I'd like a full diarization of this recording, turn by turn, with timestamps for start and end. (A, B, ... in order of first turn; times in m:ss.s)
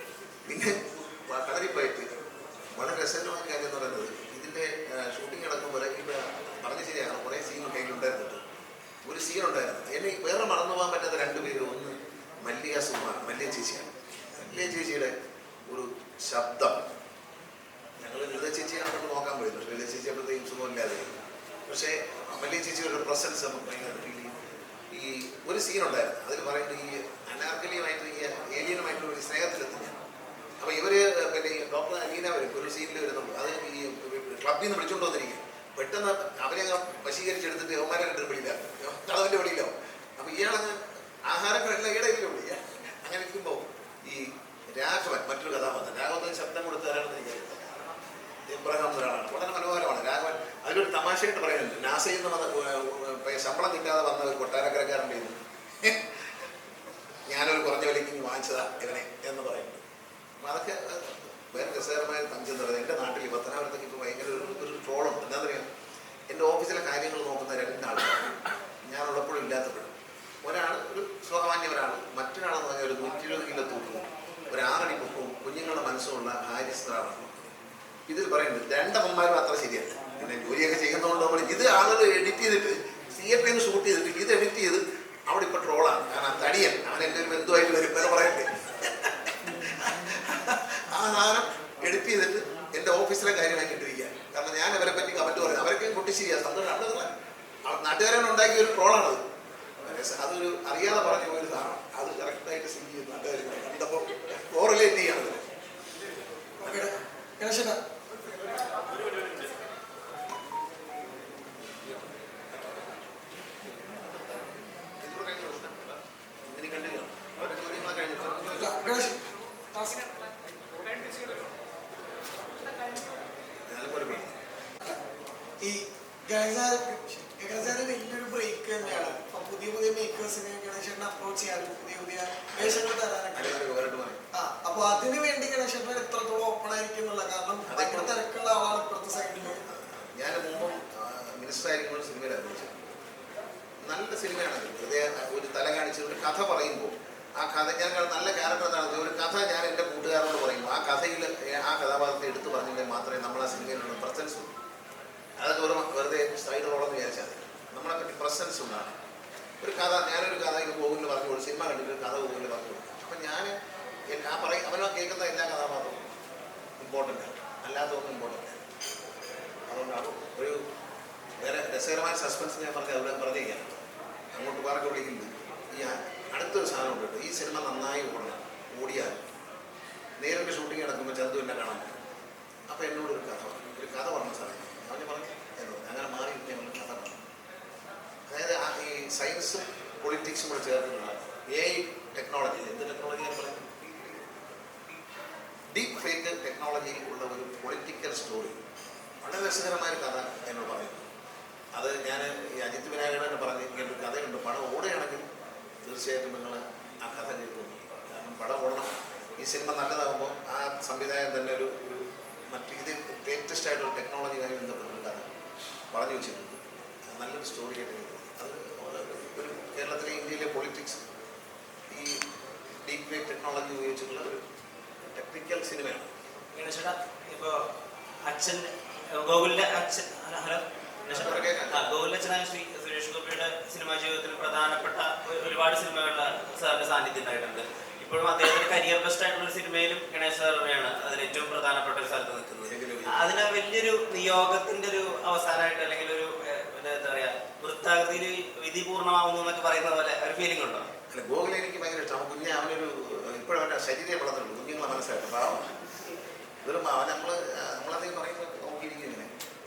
0:00.5-0:08.4 A
0:09.0-0:15.1 A
0:15.7-0:16.8 A
0:18.0-0:21.1 A
0:21.7-0:24.4 A
0:24.9-0:29.9 A
0:30.6-0:56.0 A
0:57.3-0:59.8 A
1:00.4-1:05.7 A
1:06.3-1:08.3 A
1:08.8-1:17.5 A
1:18.1-1:37.1 A
1:37.7-1:39.2 A
1:39.8-1:45.4 A
1:46.6-1:47.8 B
1:49.0-1:49.5 A
1:51.6-1:53.0 A
1:53.6-1:58.8 A
1:58.5-1:59.2 B
1:59.7-2:00.3 B
2:03.6-2:04.4 A
2:05.6-2:13.6 B
2:13.3-2:14.2 A
2:14.3-2:19.6 B
2:17.7-2:18.2 A
2:19.6-2:22.9 A
2:23.8-2:34.5 A
2:35.4-2:39.0 A
2:39.6-2:43.5 A
2:44.1-2:46.1 A
2:46.8-2:48.6 A
2:49.7-2:50.6 A
2:51.4-2:53.8 A
2:54.3-2:59.2 A
3:00.2-3:02.0 A
3:02.7-3:07.2 A
3:08.3-3:14.4 A
3:15.7-3:18.6 A
3:19.2-3:21.1 A
3:21.7-3:25.2 A
3:25.8-3:35.3 A
3:35.9-3:41.0 A
3:41.9-3:42.2 A
3:42.8-3:44.4 A
3:45.1-3:46.1 A
3:46.5-3:47.6 C
3:48.2-4:10.9 C
3:51.1-3:51.9 A
4:02.6-4:03.4 A
4:11.1-4:15.7 A
4:16.6-4:19.3 A